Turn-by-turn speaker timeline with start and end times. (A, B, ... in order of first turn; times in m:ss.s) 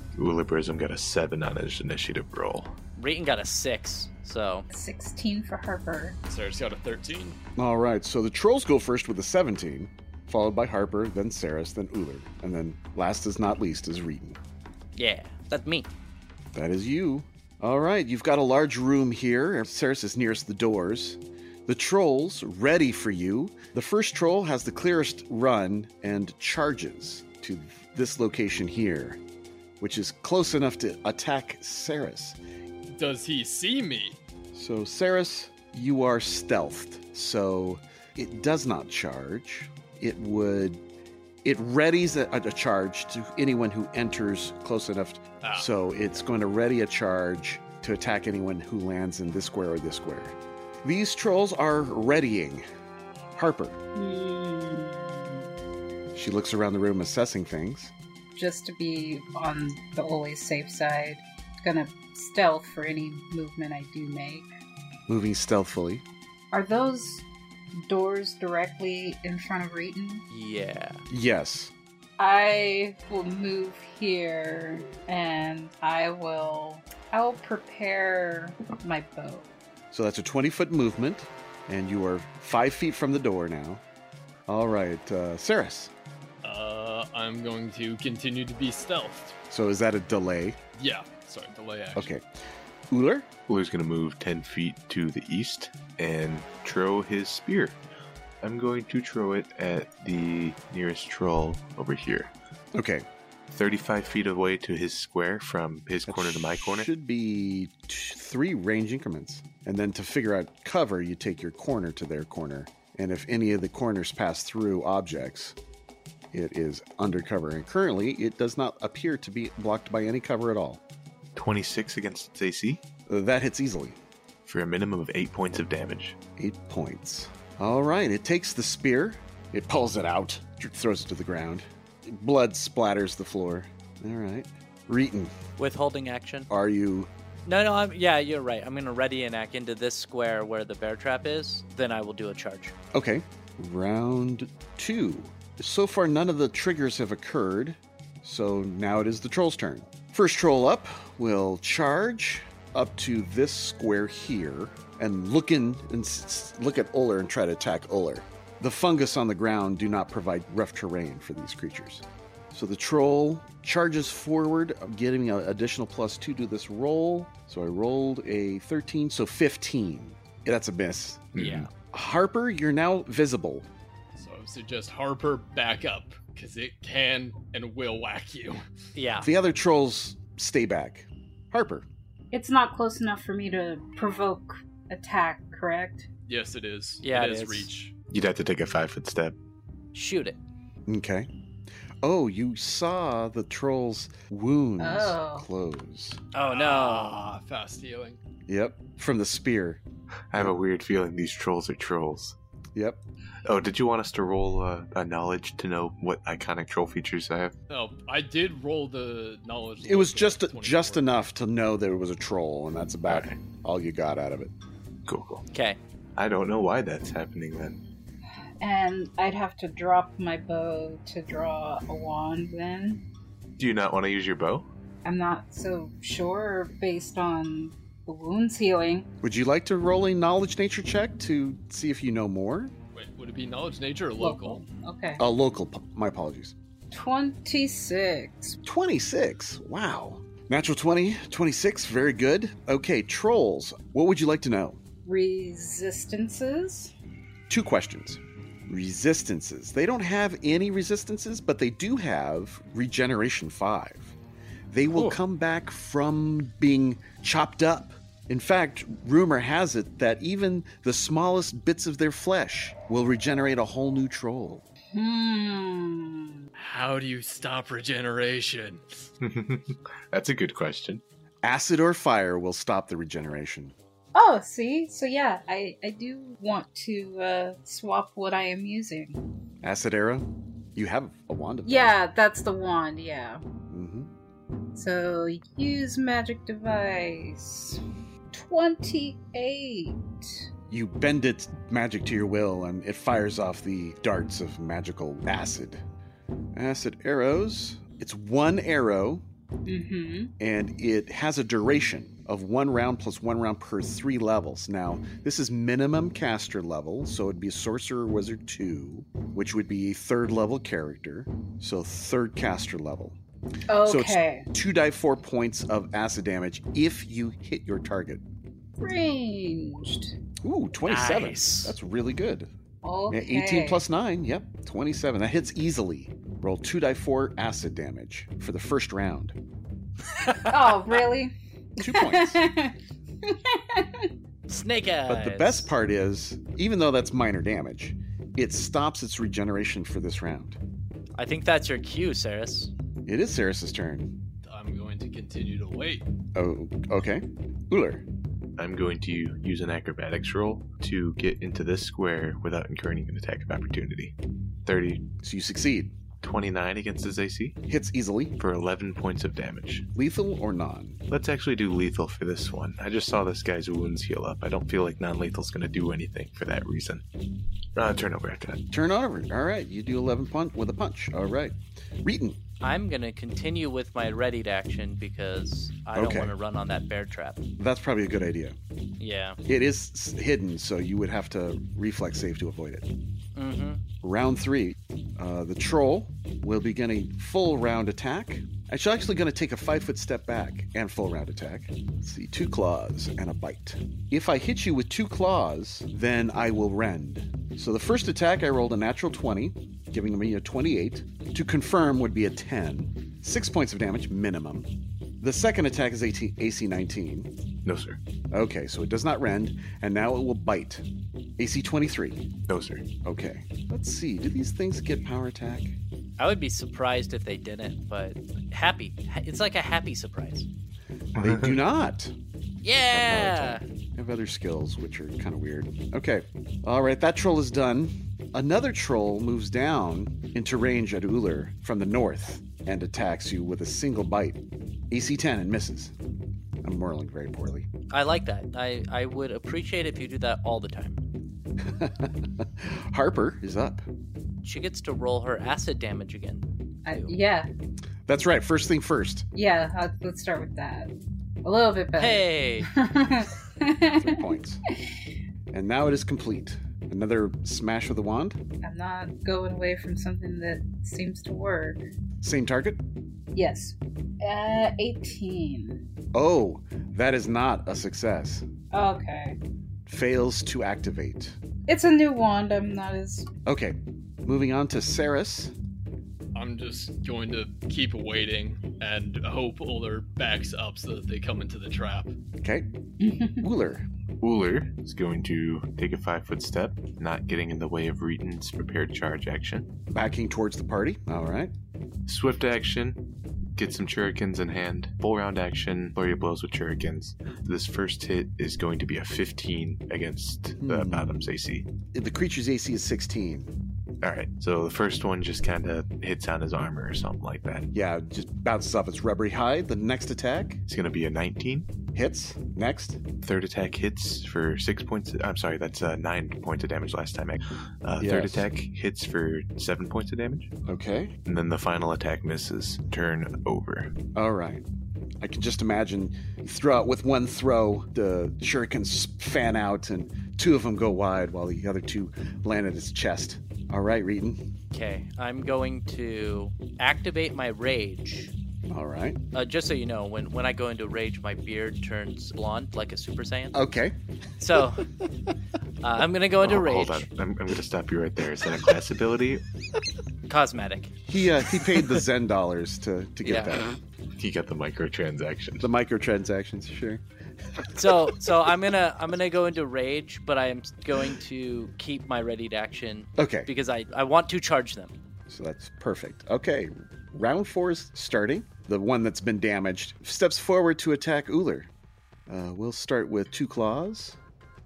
0:00.2-0:02.8 A
0:03.0-0:04.7 B
0:04.7-0:06.2 C
0:06.3-0:07.4 D
0:07.6-0:14.4 E
0:15.0-0:15.9 B
0:16.5-0:29.2 E
0:29.8-0:32.4 E
0:32.9-0:34.2 D
0:34.5-0:40.8 E
0:41.4-0:52.6 E
0:45.4-0:45.7 D
0:53.4-0:53.8 E
0:54.0-0:55.4 C
0:56.1-0:57.9 E
0:58.4-1:04.5 C
1:05.1-1:06.0 E
1:06.5-1:07.2 C
1:07.8-1:10.2 C
1:10.3-1:11.0 B
1:11.1-1:11.7 E
1:12.2-1:19.5 C
1:19.9-1:23.8 E
1:24.5-1:25.9 E
1:26.4-1:29.4 D
1:29.5-1:30.6 E
1:30.8-1:32.1 D
1:32.0-1:32.2 E
1:32.9-1:33.3 E
1:33.5-1:37.8 A
1:38.4-1:42.3 A
1:42.8-1:43.1 E
1:43.5-1:46.9 A
1:46.1-1:55.6 E
1:56.3-2:00.8 E
2:01.4-2:02.8 A
2:03.1-2:04.0 E
2:04.4-2:06.2 A
2:06.4-2:15.3 E
2:15.6-2:16.5 B
2:16.5-2:17.1 E
2:17.5-2:22.7 B
2:22.9-2:53.7 E
2:51.4-2:51.7 A
2:51.4-2:51.7 B
2:54.2-2:58.6 D
2:59.0-2:59.3 B
2:59.2-3:01.9 E
3:02.3-3:06.1 C
3:06.3-3:07.9 D
3:07.0-3:07.7 B
3:08.1-3:09.4 A
3:09.9-3:10.4 B
3:10.9-3:11.3 E
3:12.0-3:16.2 E
3:14.8-3:15.5 C
3:16.3-3:17.3 B
3:16.4-3:18.2 D
3:18.5-3:19.8 E
3:20.3-3:22.4 A
3:22.8-3:23.0 E
3:23.4-3:27.5 A
3:27.7-3:31.1 D
3:29.8-3:34.5 E
3:33.1-3:33.4 A
3:35.1-3:35.5 A
3:35.5-3:35.8 B
3:36.2-3:37.8 A
3:38.6-3:43.0 C
3:43.6-3:44.7 A
3:45.0-3:49.1 C
3:49.2-3:52.7 E
3:52.9-3:54.6 D
3:54.2-3:55.2 C
3:55.2-3:56.5 E
3:56.9-3:58.6 C
3:58.6-4:04.8 E
4:05.0-4:06.9 C
4:07.5-4:14.2 E
4:14.7-4:24.6 E
4:24.9-4:26.4 C
4:26.6-4:29.1 D
4:29.2-4:31.0 A
4:31.4-4:33.8 E
4:34.1-4:39.2 C
4:39.6-4:42.0 E
4:41.6-4:43.4 C
4:43.7-4:44.1 E
4:44.8-4:50.1 C
4:50.7-4:55.8 E
4:56.5-4:59.2 E
4:59.7-5:00.3 C
5:00.4-5:13.2 E
5:13.7-5:14.5 C
5:13.8-5:18.2 E
5:18.8-5:20.1 C
5:20.4-5:22.5 E
5:20.9-5:21.8 B
5:22.8-5:23.8 C
5:23.1-5:29.4 E
5:30.1-5:30.7 B
5:30.5-5:34.1 C
5:31.8-5:32.4 E
5:34.5-5:35.7 B
5:35.1-5:40.6 E
5:41.2-5:42.7 B
5:43.1-5:44.1 E
5:44.4-5:46.1 D
5:46.4-5:48.0 E
5:48.6-5:55.1 A
5:55.2-5:56.0 E
5:56.2-5:57.6 A
5:57.7-5:58.3 E
5:58.4-5:59.9 A
6:00.0-6:01.0 E
6:01.1-6:07.0 A
6:07.8-6:08.6 A
6:08.7-6:12.4 E
6:12.6-6:17.4 B
6:16.0-6:16.3 E
6:17.6-6:18.6 E
6:19.0-6:19.4 B
6:19.5-6:22.9 E
6:23.4-6:23.8 B
6:24.0-6:44.7 E
6:45.2-6:47.3 E
6:47.6-6:48.0 A
6:48.3-6:50.8 E
6:51.4-6:52.2 E
6:52.5-6:52.9 A
6:53.0-6:55.8 E
6:56.2-7:00.5 B
7:01.2-7:01.5 A
7:01.2-7:02.2 E
7:02.6-7:03.6 B
7:02.9-7:15.9 E
7:16.6-7:17.7 E
7:17.9-7:21.0 B
7:21.6-7:23.8 E
7:24.4-7:27.2 B
7:26.9-7:27.5 C
7:28.1-7:29.2 E
7:29.4-7:30.9 C
7:31.4-7:34.2 C
7:32.0-7:32.7 B
7:33.9-7:34.6 E
7:35.5-7:38.4 E
7:38.6-7:41.8 C
7:42.2-7:42.8 E
7:43.3-7:45.8 C
7:46.1-7:48.5 E
7:48.7-7:49.4 C
7:49.9-7:51.4 E
7:51.7-7:53.3 C
7:53.5-7:55.5 E
7:56.4-8:02.1 D
8:02.4-8:02.7 E
8:03.0-8:03.4 C
8:03.4-8:03.9 E
8:04.2-8:09.7 A
8:09.9-8:11.5 E
8:12.1-8:13.0 A
8:13.6-8:21.7 A
8:20.6-8:21.2 E
8:21.9-8:23.5 E
8:24.0-8:27.7 A
8:27.7-8:30.6 E
8:30.7-8:31.7 A
8:32.0-8:33.0 E
8:33.2-8:40.5 A
8:38.0-8:38.5 E
8:40.7-8:41.2 E
8:41.3-8:43.9 A
8:44.2-8:44.6 E
8:45.2-8:54.4 E
8:54.7-8:58.3 B
8:58.7-8:59.2 E
8:59.3-9:03.6 B
9:03.5-9:04.0 E
9:04.4-9:04.9 B
9:05.8-9:07.1 B
9:06.4-9:09.4 A
9:10.3-9:10.9 B
9:11.1-9:13.8 E
9:13.2-9:13.6 B
9:14.2-9:15.7 A
9:15.6-9:17.0 E
9:17.7-9:24.9 B
9:23.2-9:23.5 E
9:25.3-9:31.7 E
9:32.3-9:34.2 E